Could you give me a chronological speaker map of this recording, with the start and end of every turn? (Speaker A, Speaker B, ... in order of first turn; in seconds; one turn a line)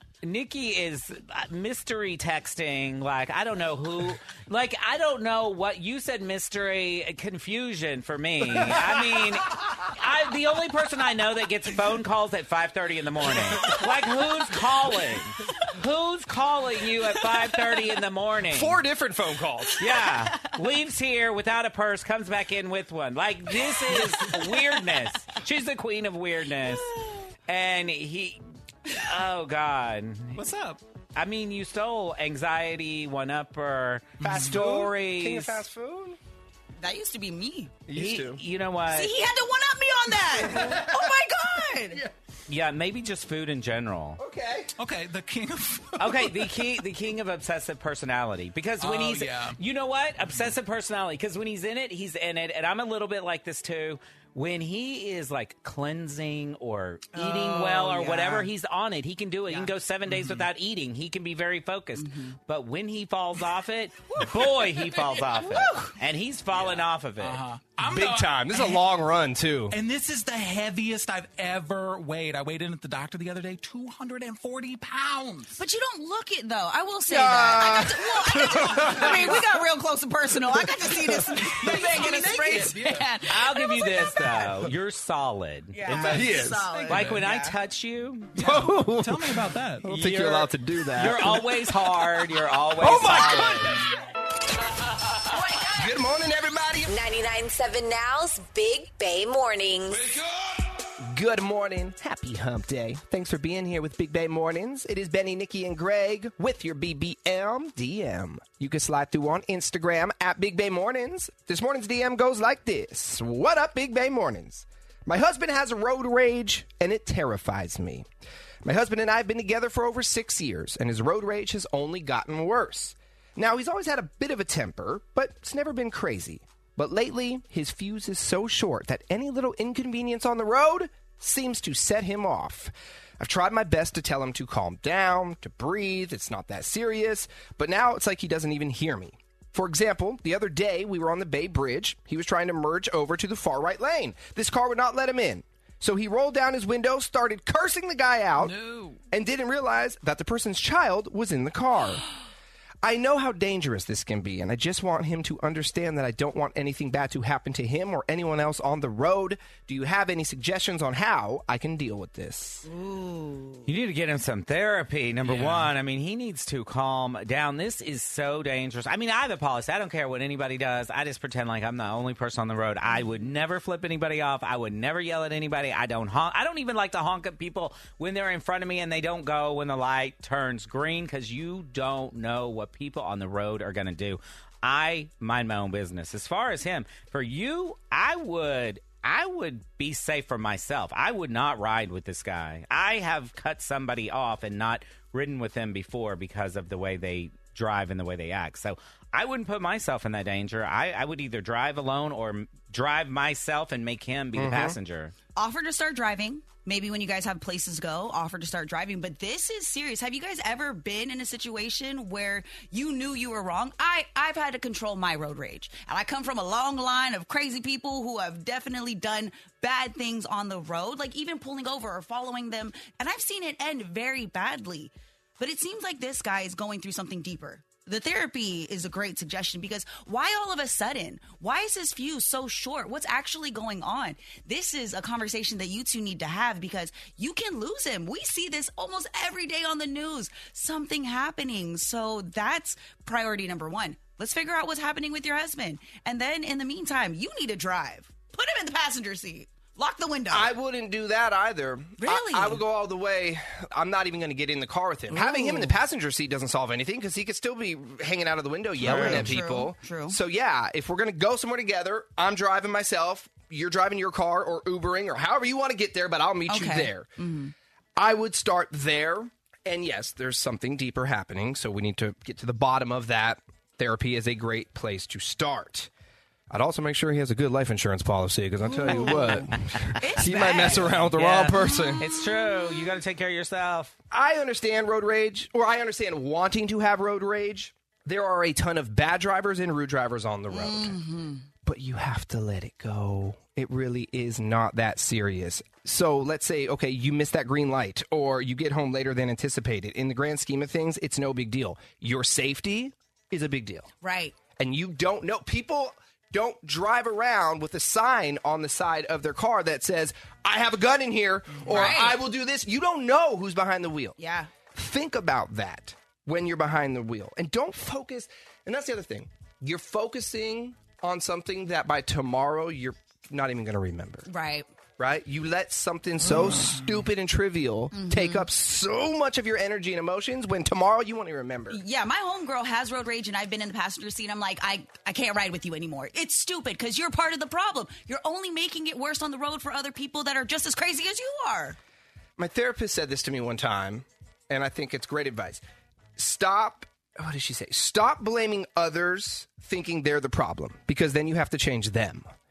Speaker A: 0.2-18.8
Speaker B: 18.5-19.9
Speaker A: 19.8-26.9
Speaker A: 27.5-30.4
Speaker C: 30.3-30.8
Speaker A: 31.1-35.6
Speaker C: 34.2-34.6
Speaker B: 34.2-36.2
Speaker D: 36.8-37.7
Speaker B: 37.9-38.4
Speaker A: 37.9-39.1
Speaker D: 38.9-42.0
Speaker A: 42.5-44.2
Speaker B: 44.2-44.7
Speaker C: 44.8-46.6
Speaker A: 46.0-67.4
Speaker C: 48.8-49.6
Speaker D: 57.1-58.5
Speaker C: 57.5-58.4
Speaker C: 60.0-60.5
Speaker D: 62.0-62.4
Speaker D: 65.4-65.9
Speaker C: 66.5-68.8
Speaker B: 67.8-69.8
Speaker C: 69.7-75.6
Speaker D: 75.6-84.2
Speaker B: 77.1-79.4
Speaker C: 78.8-79.4
Speaker C: 81.4-83.1
Speaker A: 83.3-86.3
Speaker D: 85.7-87.5
Speaker B: 86.0-86.7
Speaker C: 86.7-87.3
Speaker A: 86.9-88.3
Speaker C: 88.3-89.8
Speaker B: 88.4-91.5
Speaker A: 89.9-93.8
Speaker B: 92.8-93.7
Speaker D: 95.3-95.8
Speaker B: 95.7-96.9
Speaker E: 96.9-100.0
Speaker B: 101.0-118.0
Speaker B: 118.6-148.6
Speaker C: 148.4-149.0
Speaker B: 149.1-152.1
Speaker B: 152.8-162.7
Speaker D: 162.7-163.7
Speaker A: 163.7-205.1
Speaker C: 165.2-165.7
Speaker B: 204.3-204.8
Speaker D: 205.3-250.5
Speaker B: 250.3-267.1
Speaker D: 252.0-252.6
Speaker D: 255.1-255.7
Speaker D: 258.8-260.2
Speaker A: 258.8-259.3
Speaker D: 266.5-267.5
Speaker B: 268.0-275.9
Speaker B: 276.5-282.0
Speaker D: 278.6-280.9
Speaker A: 280.5-283.9
Speaker D: 281.6-282.5
Speaker B: 284.1-291.0
Speaker D: 290.5-291.4
Speaker B: 291.6-303.9
Speaker D: 304.0-304.3
Speaker B: 304.6-314.2
Speaker D: 311.7-312.2
Speaker D: 314.2-314.5
Speaker B: 314.7-324.3
Speaker D: 324.3-324.7
Speaker B: 325.0-331.8
Speaker D: 327.9-328.5
Speaker D: 331.7-341.8
Speaker B: 342.4-345.6
Speaker B: 346.2-352.3